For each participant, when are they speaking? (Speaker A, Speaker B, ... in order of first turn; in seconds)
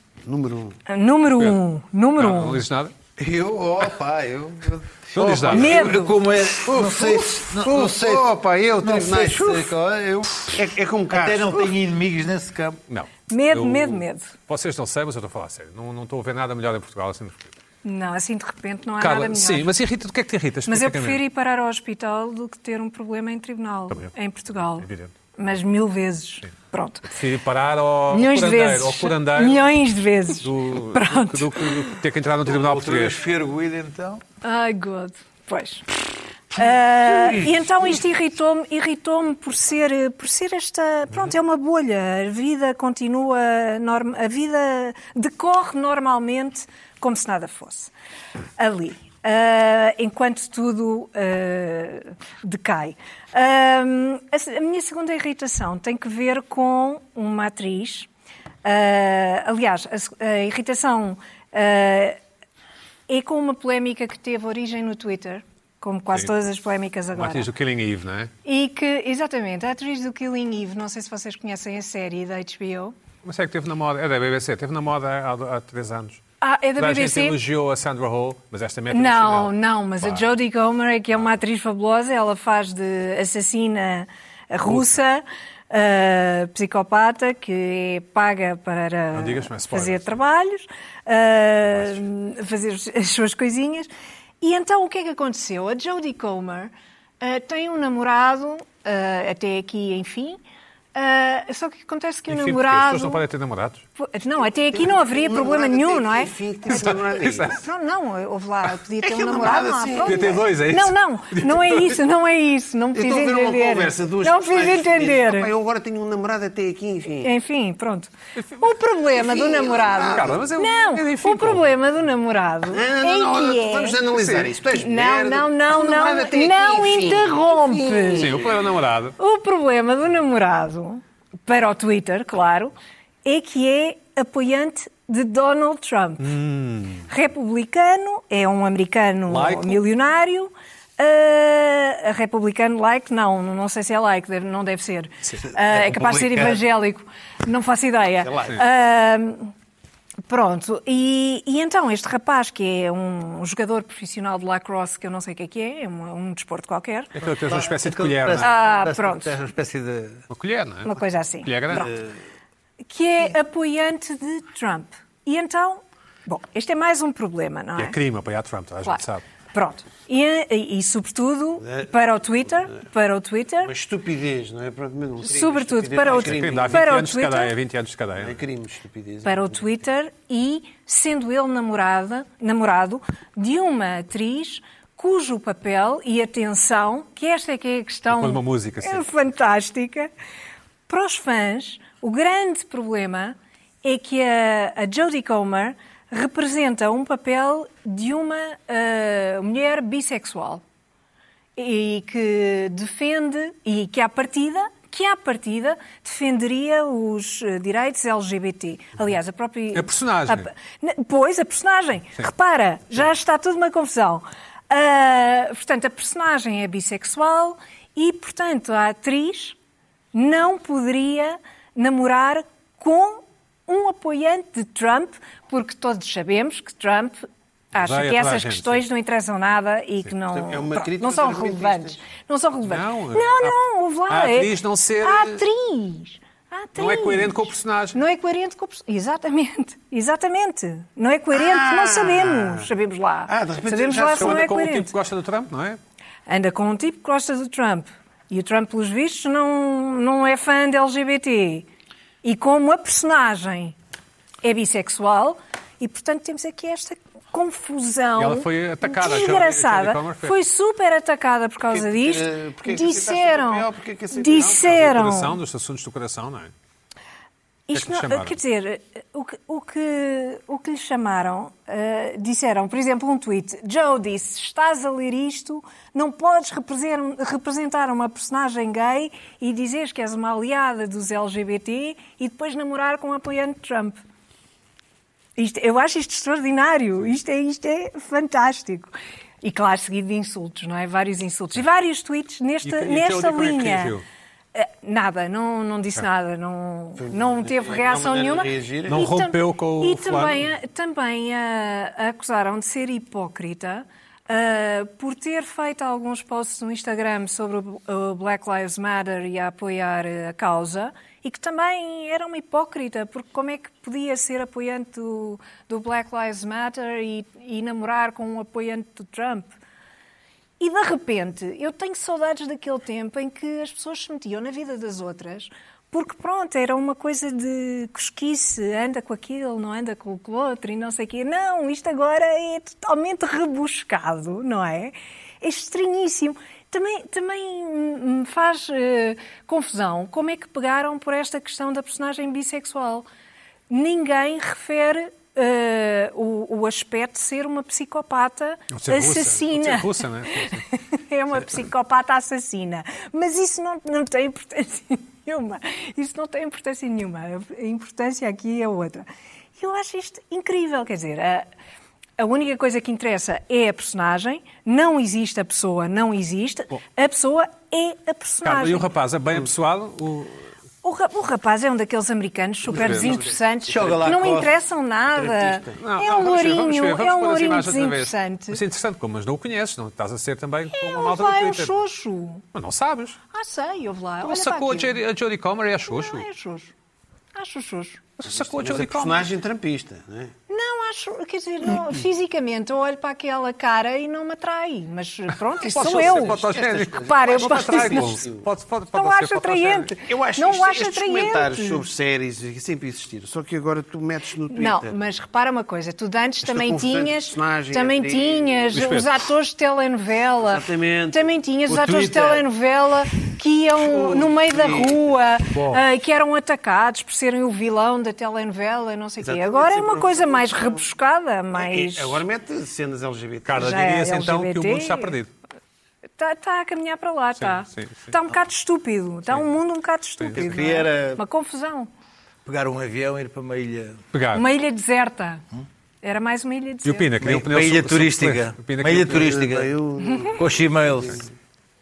Speaker A: 0.2-0.8, 3.2-5.8, 6.6-9.7, 10.5-11.7, 104.7-107.6, 109.0-110.4, 112.9-117.3, 119.1-120.4, 122.7-128.5, 148.2-148.6, 173.6-176.8, 178.2-179.6, 230.3-232.0, 241.3-242.7, 243.3-244.4, 261.7-264.9, 297.0-299.1, 375.4-375.7, 388.3-390.3, 395.8-398.5, 400.1-404.9, 406.4-408.9, 410.4-411.3, 413.8-415.1, 419.2-420.8, 421.5-423.7, 439.0-441.2
Speaker B: 0.9-2.6, 5.5-6.2, 13.3-14.3, 17.8-19.7, 20.7-27.1, 28.1-31.9, 34.4-35.9, 36.5-47.9, 48.6-58.1, 58.6-62.2, 63.1-67.5, 68.4-72.9, 76.4-77.4, 78.9-93.9, 94.4-100.4, 100.9-103.2, 104.0-115.5, 117.2-124.0, 124.7-128.5, 129.2-136.3, 137.1-149.5, 150.3-157.1, 158.4-159.4, 160.8-162.0, 162.9-167.9, 169.5-173.7, 175.2-177.5, 179.2-190.1, 190.9-200.6, 201.6-219.6, 220.1-244.9, 246.3-251.7, 252.2-253.7, 254.4-265.4, 267.7-284.0, 285.4-294.0, 294.5-319.5, 320.6-343.1, 343.7-359.0, 359.6-361.4, 362.2-368.9, 370.8-378.6, 380.7-382.4, 383.3-385.0, 385.8-386.7, 387.3-388.0, 390.5-398.2, 398.9-401.9, 404.5-422.2, 423.5-425.1, 426.2-431.9, 434.3-435.4, 436.0-437.1
Speaker C: 2.2-2.9, 5.1-5.9, 12.9-17.5, 19.0-21.2, 24.8-25.1, 27.1-29.6, 30.4-33.2, 67.1-68.3, 73.2-76.2, 76.8-80.3, 84.6-84.9, 89.1-90.2, 91.7-92.0, 102.3-103.8, 106.7-107.6, 110.0-111.9, 118.4-118.6, 120.1-121.7, 124.1-124.5, 128.1-129.2, 136.2-137.1, 139.3-139.8, 157.1-158.5, 160.3-161.9, 167.8-169.2, 176.1-178.4, 188.1-189.0, 209.7-210.5, 227.8-228.8, 232.6-235.4, 236.8-238.0, 244.2-245.8, 258.2-260.4, 264.7-266.5, 267.7-268.4, 292.6-294.0, 298.9-300.5, 348.7-350.6, 368.4-370.4, 372.7-373.2, 375.8-381.8, 382.5-383.2, 384.2-386.2, 388.2-389.2, 395.7-399.9, 408.7-409.1, 415.5-415.8, 423.4-425.3, 427.4-428.1, 434.1-434.4, 436.8-439.4
Speaker D: 3.5-12.8, 32.5-34.2, 145.4-146.6, 157.2-160.2, 373.6-374.5, 411.7-412.4, 430.3-431.2, 432.4-434.0, 437.2-439.7, 440.4-441.2